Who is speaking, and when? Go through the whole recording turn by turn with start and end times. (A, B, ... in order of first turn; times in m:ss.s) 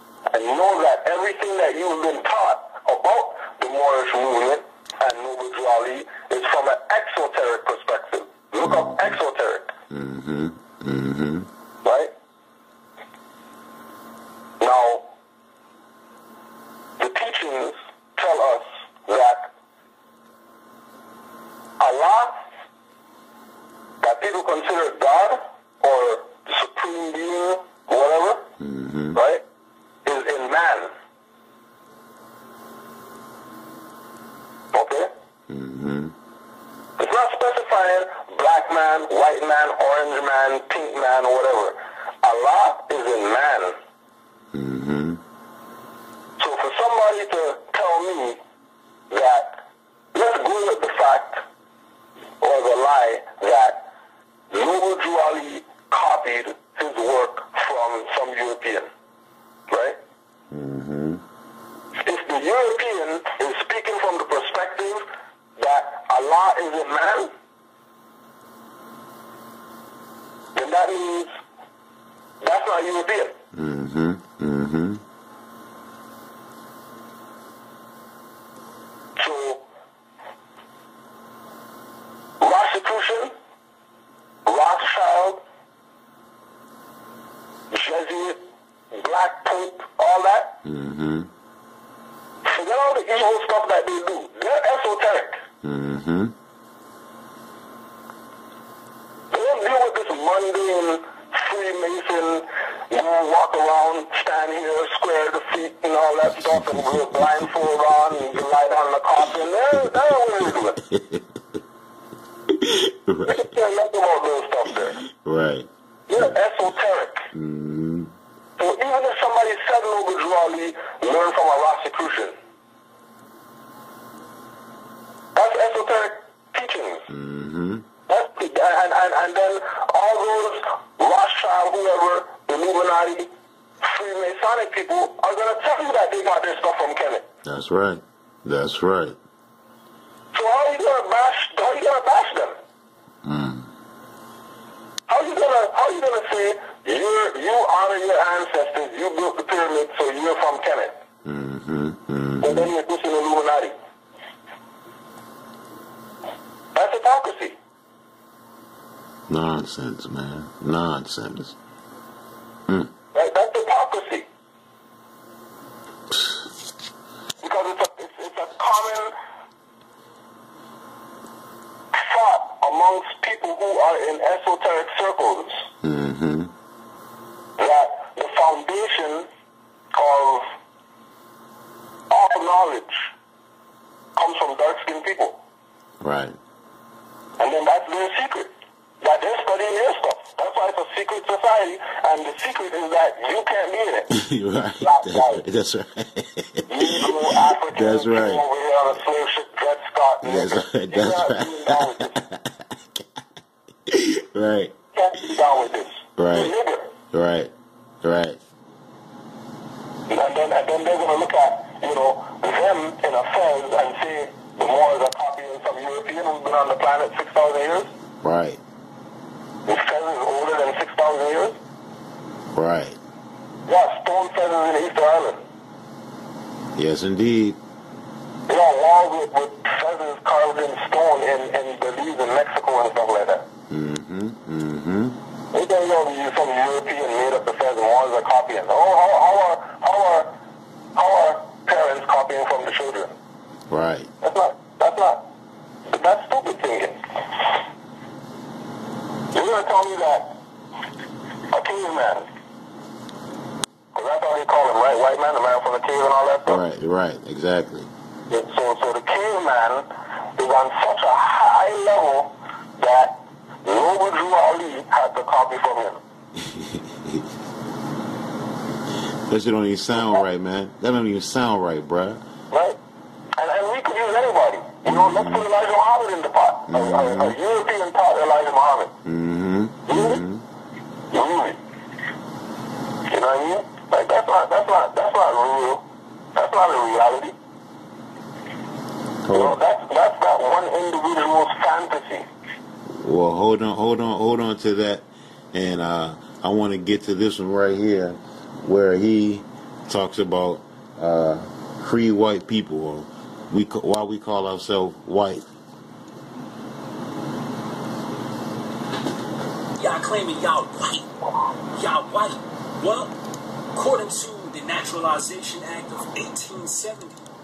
0:00.3-0:09.7 A
0:08.6-0:09.2 B
0:09.9-0:11.5 B
0:11.8-0:12.1 A
0:14.6-0:15.0 A
0:17.0-0:19.5 A
0:21.8-0:22.4 A
0:24.0-0:28.5 A
0:28.6-0:29.2 B
0:29.1-0:29.4 A
0:30.0-0:30.9 A
0:34.7-0:35.1 A
0:35.5-0:36.1 B
0:37.0-0:43.8 A
0:44.5-0:45.2 B
0:46.4-0:48.4 A
0:49.1-0:49.6 A
0:50.1-0:51.4 A
0:52.4-0:53.8 A
0:54.5-0:58.9 A
0:59.7-1:00.0 A
1:00.5-1:01.2 B
1:02.0-1:07.3 A
1:10.5-1:11.3 A
1:12.4-1:13.4 A
1:13.5-1:15.0 B
1:19.2-1:19.6 A
1:22.4-1:23.3 A
1:24.4-1:25.4 A
1:27.7-1:30.6 A
1:30.6-1:31.3 B
1:32.4-1:35.4 A
1:35.6-1:36.3 B
1:39.3-1:50.8 A
1:46.3-1:47.5 B
1:50.8-1:51.3 B
1:52.5-1:53.6 B
1:53.3-1:55.0 A
1:55.2-1:56.3 B
1:56.1-1:57.3 A
1:57.3-1:58.1 B
1:58.6-2:02.4 A
2:05.3-2:07.1 A
2:07.1-2:07.8 B
2:08.1-2:13.3 A
2:13.8-2:17.2 A
2:17.4-2:19.2 B
2:20.3-2:22.6 A
2:23.2-2:23.7 B
2:25.1-2:31.0 A
2:31.2-2:32.7 B
2:32.4-2:33.7 A
2:36.7-2:37.6 A
2:39.3-2:41.6 B
2:43.1-2:44.3 A
2:46.1-2:46.4 B
2:47.4-2:49.1 A
2:51.9-2:55.7 A
2:55.8-2:56.5 B
2:57.6-2:59.3 A
3:00.0-3:00.5 A
3:02.1-3:03.1 A
3:04.2-3:05.4 A
3:06.0-3:06.4 B
3:07.4-3:14.1 A
3:14.1-3:18.4 B
3:14.8-3:15.4 A
3:16.7-3:22.3 A
3:20.2-3:23.2 B
3:23.9-3:24.7 B
3:24.9-3:26.9 A
3:26.2-3:26.5 B
3:27.1-3:28.4 B
3:30.1-3:37.9 A
3:38.2-3:38.6 B
3:39.6-3:41.6 A
3:42.5-3:43.0 B
3:43.7-3:45.4 A
3:46.8-3:47.6 B
3:48.5-3:53.4 A
3:53.7-3:55.2 B
3:55.5-4:00.3 A
4:01.0-4:03.1 A
4:03.7-4:04.1 B
4:04.2-4:05.2 A
4:05.9-4:07.0 A
4:09.3-4:10.3 A
4:11.5-4:12.2 A
4:13.9-4:16.6 A
4:16.4-4:17.9 B
4:18.3-4:26.0 A
4:26.4-4:27.2 B
4:29.3-4:32.2 B
4:32.5-4:32.8 A
4:33.4-4:38.9 A
4:34.8-4:35.4 B
4:36.7-4:37.4 B
4:39.0-4:40.4 B
4:39.9-4:40.2 A
4:41.1-4:41.6 A
4:43.1-4:45.8 A
4:46.3-4:47.3 A
4:49.2-4:49.6 B
4:49.3-4:52.2 A
4:52.9-5:05.5 B
5:09.8-5:11.1 C
5:11.7-5:13.2 C
5:13.7-5:17.2 C